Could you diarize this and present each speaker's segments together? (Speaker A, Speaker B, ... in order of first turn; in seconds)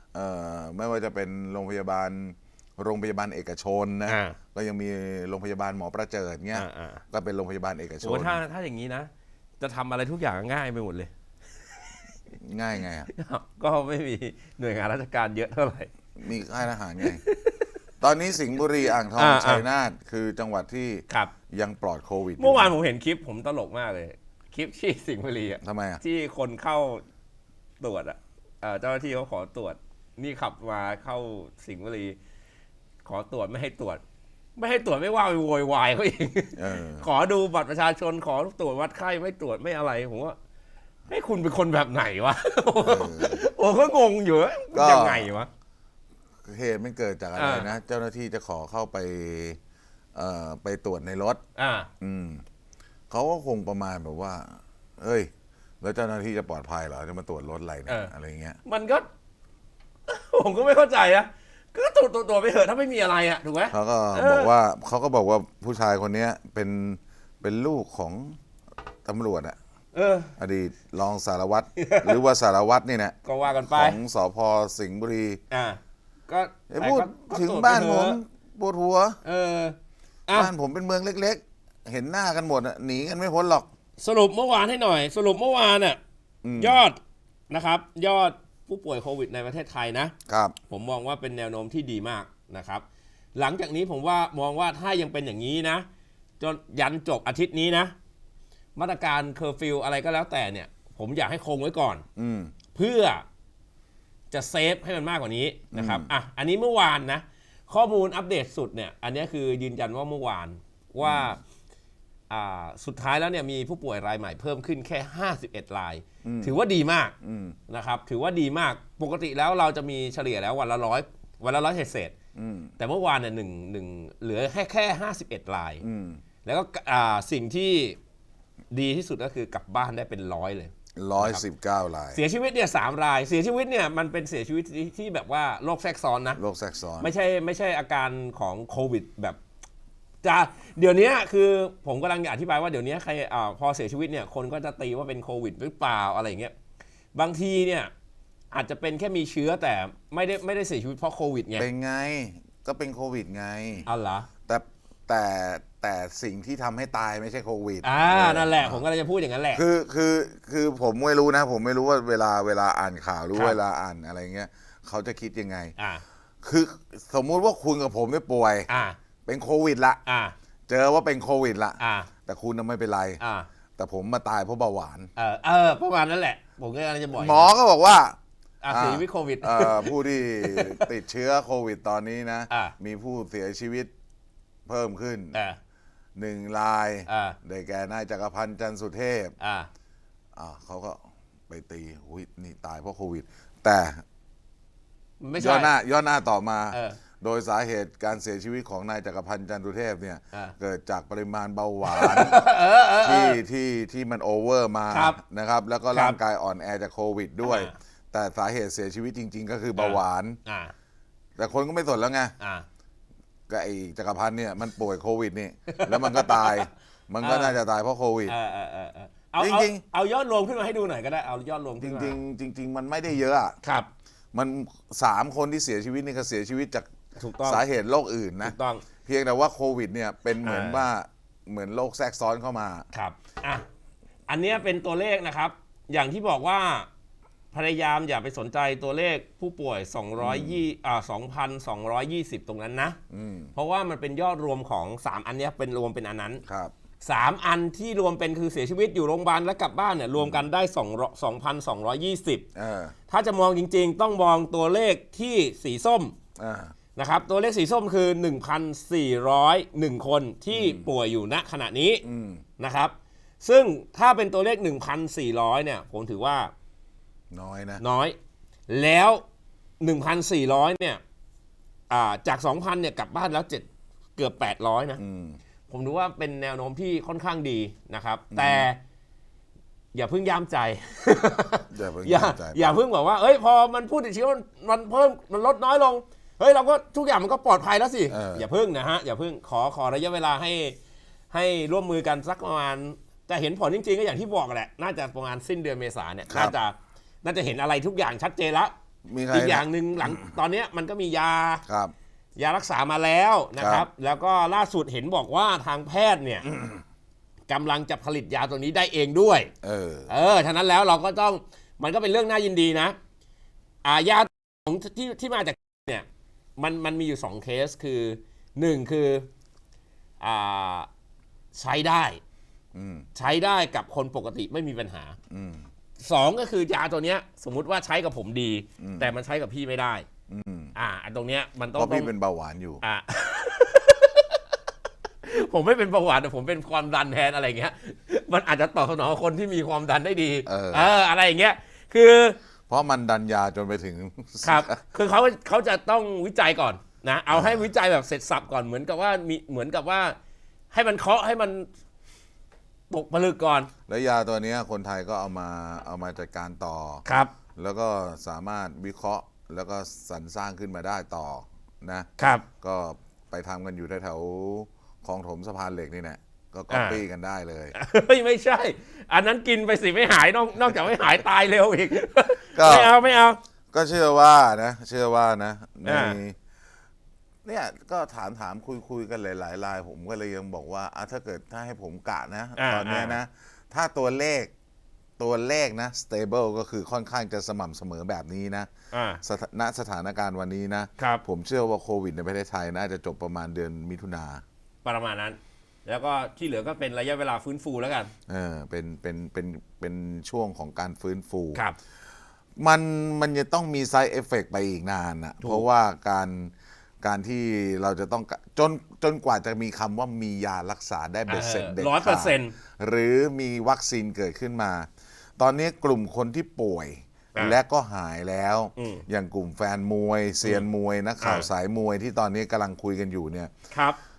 Speaker A: 0.1-8.4, 12.3-13.1, 16.2-17.2, 18.0-22.8, 25.6-26.0, 36.5-37.1, 42.8-43.5, 44.7-45.3, 46.4-49.6, 50.1-51.4, 52.0-52.4, 53.1-55.3, 55.8-58.6, 63.7-68.4, 69.0-69.5, 70.4-75.4, 76.7-79.2, 80.3-83.7, 86.4-86.8, 90.3-90.5, 102.2-102.5, 105.7-106.1, 111.0-111.3, 116.2-116.5, 117.2-117.6, 122.3-122.7, 125.8-126.2, 130.9-132.2, 136.3-137.1, 151.5-153.9, 154.5-158.8, 159.5-165.7, 166.4-168.7, 169.2-170.0, 170.7-173.2, 173.8-175.1, 177.1-178.2, 178.7-183.9, 184.7-185.4, 186.2-189.3, 190.3-194.0, 195.4-202.4, 203.0-210.4, 211.4-212.3, 213.5-218.3, 219.4-219.8, 221.8-223.6, 224.3-226.9, 227.4-232.9, 240.2-240.6, 243.1-243.5, 246.4-246.7, 250.1-250.5, 252.5-252.9, 256.4-256.7, 260.5-260.9, 262.0-262.4, 267.3-267.8, 275.0-275.4, 278.3-278.7, 281.7-282.7, 288.1-288.5, 296.3-296.6, 299.1-300.3, 301.7-301.9, 303.6-303.9, 306.5-306.8, 309.6-310.1, 322.7-323.1, 325.3-325.7, 328.8-329.1, 330.3-330.7, 331.7-332.8, 340.4-340.9, 342.7-344.8, 347.3-347.7, 353.9-357.0, 357.6-362.1, 362.6-367.7, 372.5-373.0, 373.7-376.4, 377.4-384.5, 385.2-388.7, 389.2-394.4, 398.3-401.6, 402.6-423.5
Speaker B: 4.1-4.4, 6.5-7.0, 8.0-11.1, 13.1-15.9, 17.0-17.7, 19.0-19.6, 21.1-21.3, 22.4-27.0, 27.8-32.2, 33.0-34.0, 34.6-40.4, 41.1-45.5, 47.4-47.7, 51.5-51.9, 57.9-58.1, 58.6-59.0, 60.1-64.5, 69.9-70.3, 71.8-72.2, 73.2-74.0, 75.5-78.2, 79.2-79.8, 80.3-80.5, 84.0-86.0, 86.6-87.0, 87.5-90.1, 90.7-92.8, 93.3-95.8, 96.4-97.9, 98.8-102.0, 102.7-103.2, 104.3-111.4, 112.3-117.1, 117.7-122.1, 122.8-125.8, 126.4-128.0, 128.7-131.4, 132.1-136.4, 137.0-139.4, 140.2-146.5, 147.1-147.9, 148.5-151.7, 153.8-154.3, 157.8-159.6, 165.8-166.0, 168.7-169.0, 170.1-170.3, 171.8-172.1, 173.2-173.5, 175.2-177.5, 178.6-180.9, 182.5-182.7, 187.1-187.4, 189.4-189.7, 195.2-195.7, 196.7-197.0, 201.8-203.4, 204.9-205.2, 205.9-206.2, 207.4-207.7, 209.8-210.7, 212.4-212.7, 215.7-216.6, 217.2-217.6, 218.3-222.2, 223.6-223.9, 227.2-227.6, 228.4-228.9, 230.4-230.9, 232.9-233.7, 234.3-236.9, 237.5-243.0, 243.5-246.4, 247.0-252.4, 253.1-256.1, 256.9-262.0, 262.6-266.5, 267.8-268.1, 268.7-269.2, 269.8-271.0, 271.9-275.0, 275.7-278.8, 279.9-290.8, 291.3-298.7, 299.3-301.6, 302.4-306.5, 307.5-309.5, 310.1-312.9, 313.8-316.1, 316.6-319.3, 320.2-320.9, 321.5-322.2, 323.1-325.1, 326.0-330.1, 330.7-332.1, 332.8-334.6, 335.2-342.4, 344.4-350.1, 350.7-351.7, 352.9-353.7, 357.0-357.3, 362.2-362.4, 366.7-367.0, 367.7-373.4, 375.8-376.2, 382.6-383.2, 388.9-389.2, 391.0-391.2, 394.8-398.1, 411.3-412.5, 418.8-419.0, 421.2-421.5, 423.7-424.0